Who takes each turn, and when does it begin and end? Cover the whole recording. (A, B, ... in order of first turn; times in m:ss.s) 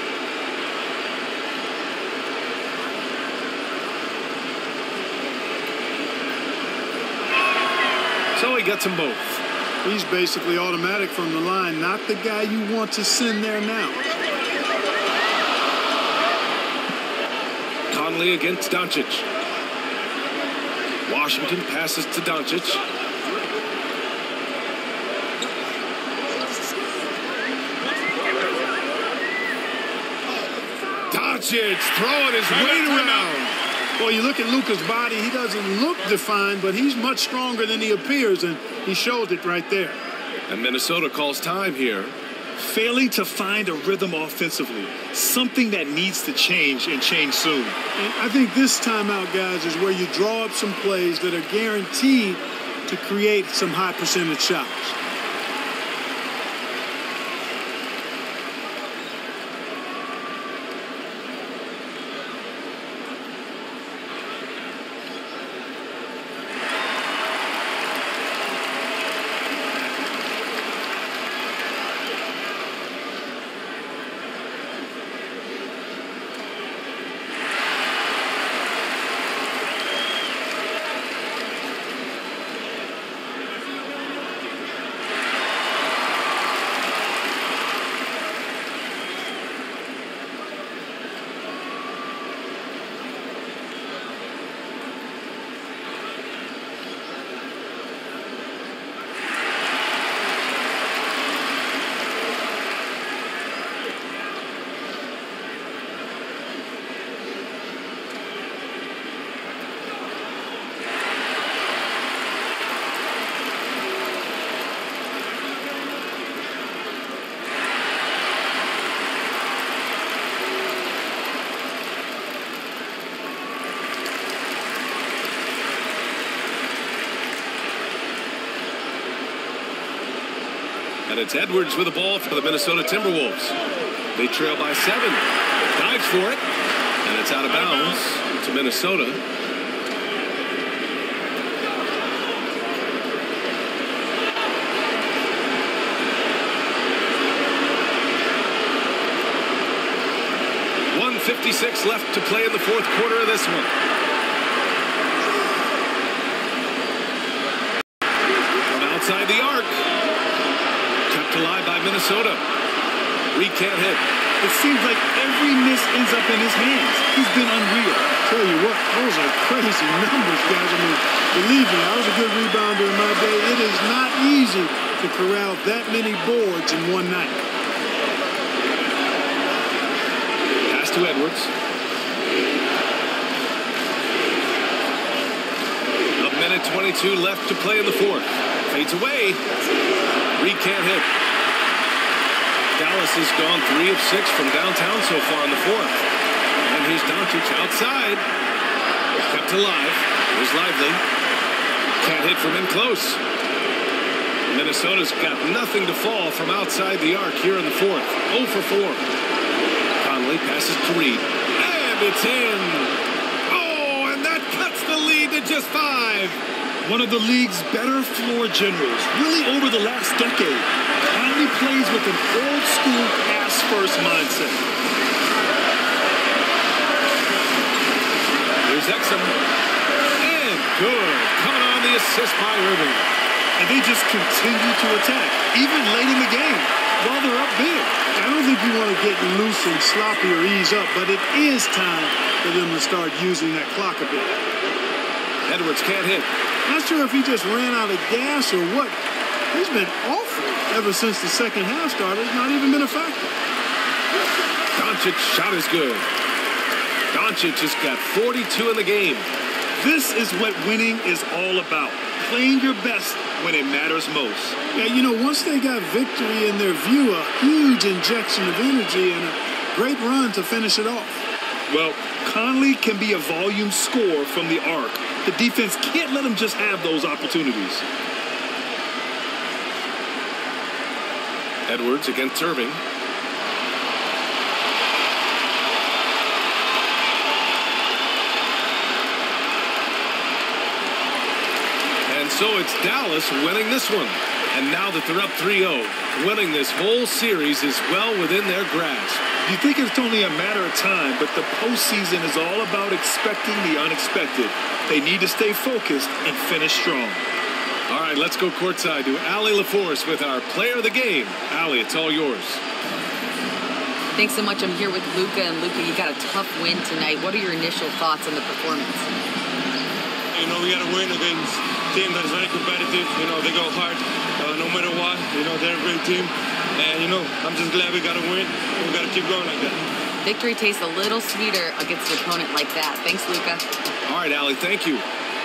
0:08.4-0:09.4 A
0:09.8-0:14.0 B
0:17.9-0:19.3 A
0:21.1-0:22.8 A
0:31.1-0:33.5 A
0:32.6-0:33.3 B
0:34.0-0:40.0 B
0:40.5-0:42.1 A
0:42.6-0:47.8 C
0:48.0-0:55.0 B
2:11.1-2:13.6 A
2:14.1-2:15.2 A
2:15.8-2:16.4 A
2:17.0-2:19.2 A
2:30.9-2:33.7 A
2:38.7-2:39.9 A
2:41.1-2:42.4 A
2:43.3-2:44.0 A
2:44.4-2:48.2 C
2:48.2-2:57.4 B
3:00.6-3:01.5 A
3:06.2-3:09.4 A
3:10.4-3:11.1 A
3:12.8-3:16.0 A
3:16.6-3:18.3 A
3:19.2-3:21.0 A
3:22.0-3:23.2 A
3:24.5-3:29.0 A
3:30.0-3:32.9 A
3:33.5-3:36.4 A
3:36.8-3:44.6 C
3:48.6-3:49.4 A
3:50.2-3:53.1 A
3:53.6-3:58.0 C
3:58.1-4:04.4 B
4:05.5-4:06.3 A
4:06.7-4:13.3 B
4:14.8-4:16.1 A
4:17.1-4:19.3 A
4:19.8-4:24.6 C
4:24.7-4:31.2 B
4:31.7-4:37.8 C
4:41.7-4:42.8 A
4:52.1-4:59.2 A
4:59.4-5:07.2 C
5:07.9-5:12.6 A
5:14.2-5:19.1 D
5:20.3-5:29.8 E
5:30.2-5:33.6 D
5:34.1-5:35.0 A